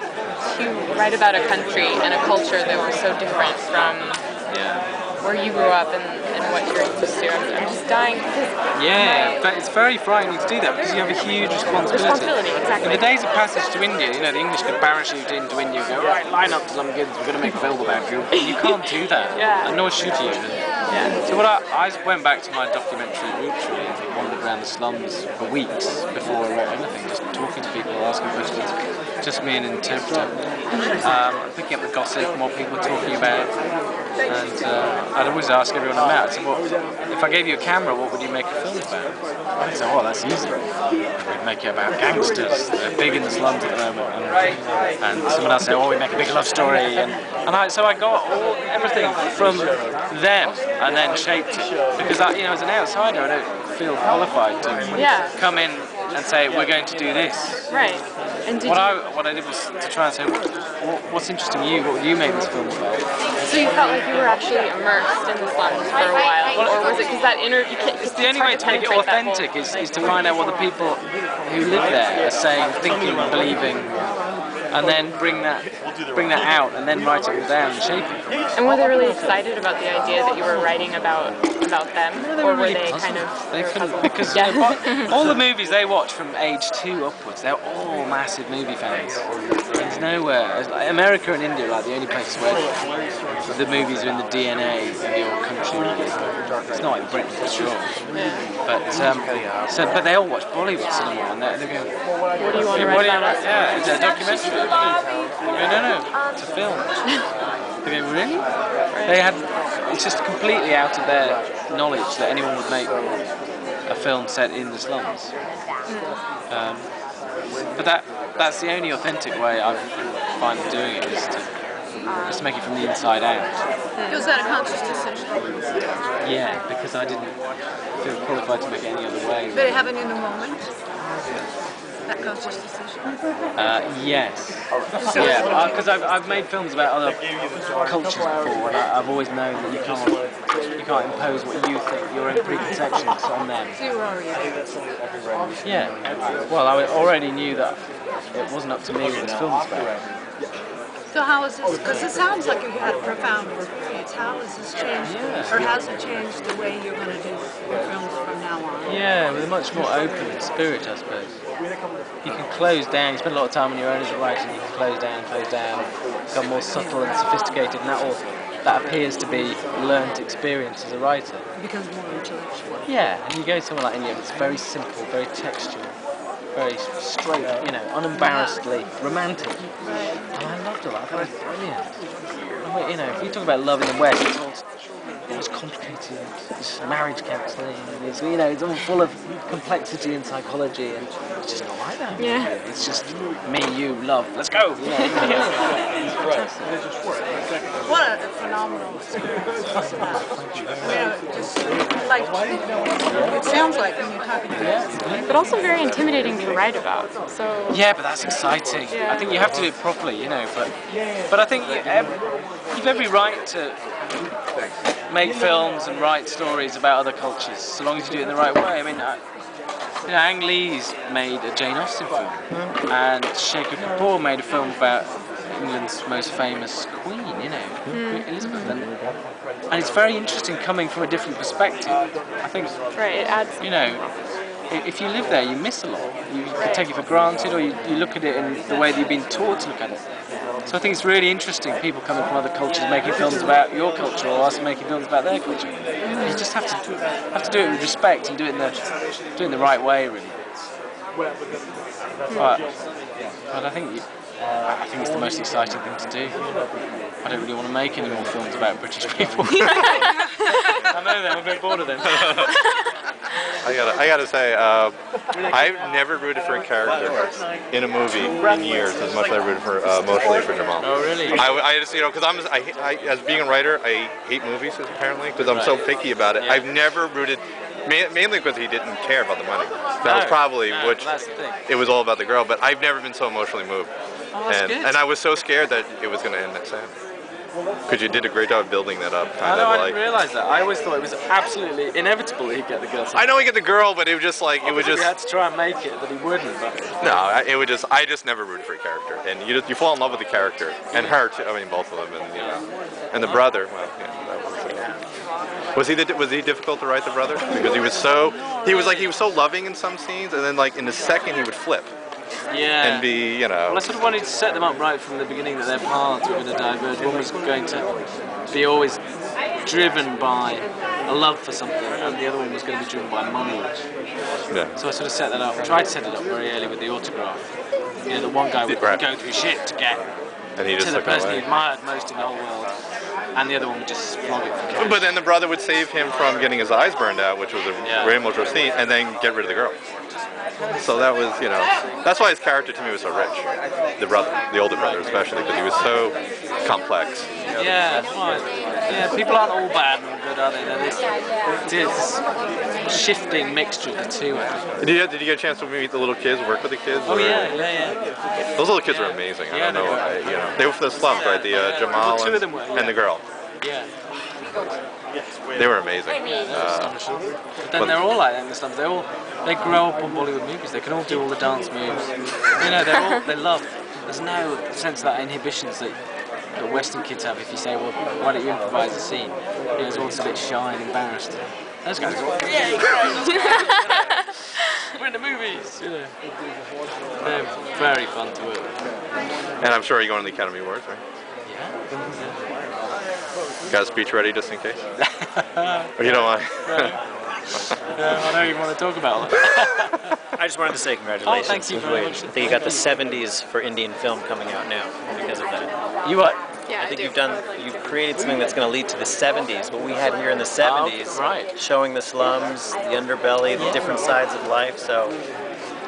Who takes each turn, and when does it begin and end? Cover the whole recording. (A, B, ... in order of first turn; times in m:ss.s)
0:00.4-0:04.2 A
0:04.5-0:04.8 B
0:05.2-0:09.5 A
0:08.7-0:20.7 B
0:11.9-0:13.2 A
0:18.3-0:18.8 A
0:19.3-0:19.7 A
0:20.9-0:21.2 A
0:21.2-0:30.4 B
0:31.0-0:33.5 B
0:34.2-0:57.7 B
0:54.9-0:55.3 A
0:57.7-0:58.9 A
0:58.6-1:03.1 B
1:03.4-1:09.6 A
1:06.5-1:06.8 B
1:08.0-1:13.9 B
1:14.7-1:18.2 B
1:18.5-1:25.1 A
1:22.2-1:32.7 B
1:33.5-1:38.0 B
1:38.1-1:38.4 A
1:38.6-1:41.9 B
1:42.4-1:43.7 A
1:42.6-1:44.9 B
1:45.5-1:47.0 B
1:47.8-1:53.0 B
1:48.9-1:49.2 A
1:53.8-1:55.3 B
1:55.9-1:56.2 A
1:56.5-1:57.0 B
1:57.7-2:01.5 B
2:02.2-2:03.6 B
2:04.1-2:05.4 C
2:06.2-2:07.4 B
2:07.9-2:09.8 B
2:09.6-2:10.7 C
2:12.1-2:13.1 C
2:13.6-2:17.2 B
2:15.0-2:15.5 C
2:17.7-2:23.8 B
2:23.8-2:24.4 C
2:25.6-2:29.9 B
2:31.1-2:38.9 C
2:35.0-2:35.6 B
2:38.8-2:41.4 B
2:42.2-2:51.4 B
2:51.6-2:52.7 C
2:52.8-2:56.0 B
2:56.5-2:59.7 B
3:00.3-3:02.0 B
3:02.6-3:04.7 B
3:05.3-3:15.5 B
3:12.2-3:12.5 A
3:14.9-3:15.4 A
3:16.3-3:16.7 B
3:17.9-3:19.1 C
3:20.0-3:20.8 B
3:20.8-3:24.6 C
3:23.1-3:23.4 B
3:24.5-3:25.3 B
3:25.2-3:27.9 A
3:27.7-3:33.8 B
3:28.9-3:29.3 A
3:35.1-3:39.2 B
3:40.0-3:49.1 B
3:42.5-3:42.7 D
3:47.9-3:48.7 A
3:49.7-3:52.8 B
3:52.9-3:54.1 A
3:53.6-4:00.0 B
3:56.6-3:56.8 A
4:00.6-4:10.4 B
4:06.0-4:06.4 A
4:12.3-4:12.7 B
4:13.5-4:16.4 B
4:17.2-4:22.5 B
4:22.0-4:22.6 D
4:23.6-4:43.9 D
4:30.8-4:31.4 B
4:35.5-4:35.8 B
4:36.4-4:36.6 B
4:40.0-4:41.6 B
4:44.3-4:45.0 B
4:44.4-4:46.9 D
4:47.9-4:50.0 D
4:49.4-4:53.4 B
4:53.1-4:55.1 D
4:54.6-4:57.1 B
4:57.0-5:05.0 D
5:00.9-5:01.2 B
5:02.4-5:02.6 B
5:05.7-5:11.9 D
5:08.0-5:09.1 B
5:12.5-5:23.8 B
5:12.8-5:13.9 D
5:24.5-5:24.8 D
5:24.7-5:30.1 B
5:28.7-5:29.0 D
5:30.6-5:31.4 D
5:30.6-5:32.7 B
5:33.3-5:35.1 B
5:34.8-5:39.8 D
5:37.8-5:38.2 B
5:40.8-5:43.4 D
5:44.0-5:47.3 D
5:44.8-5:45.0 B
5:47.5-5:52.2 B
5:52.8-5:54.7 B
5:54.8-5:57.6 D
5:57.0-5:58.0 B
5:58.4-6:03.2 D
5:58.8-6:03.0 B
6:03.6-6:03.9 B
6:04.1-6:04.8 D
6:05.5-6:07.0 D
6:06.4-6:23.8 B
6:24.8-6:26.1 B
6:27.2-6:28.7 B
6:27.2-6:27.5 D
6:29.6-6:31.0 D
6:31.4-6:32.4 B
6:33.7-6:34.8 D
6:35.1-6:37.0 B
6:36.0-6:37.0 D
6:37.9-6:40.1 B
6:40.4-6:45.7 E
6:41.2-6:42.9 B
6:46.0-6:46.4 B
6:46.8-6:55.2 E
6:50.6-6:51.5 B
6:53.6-6:53.8 B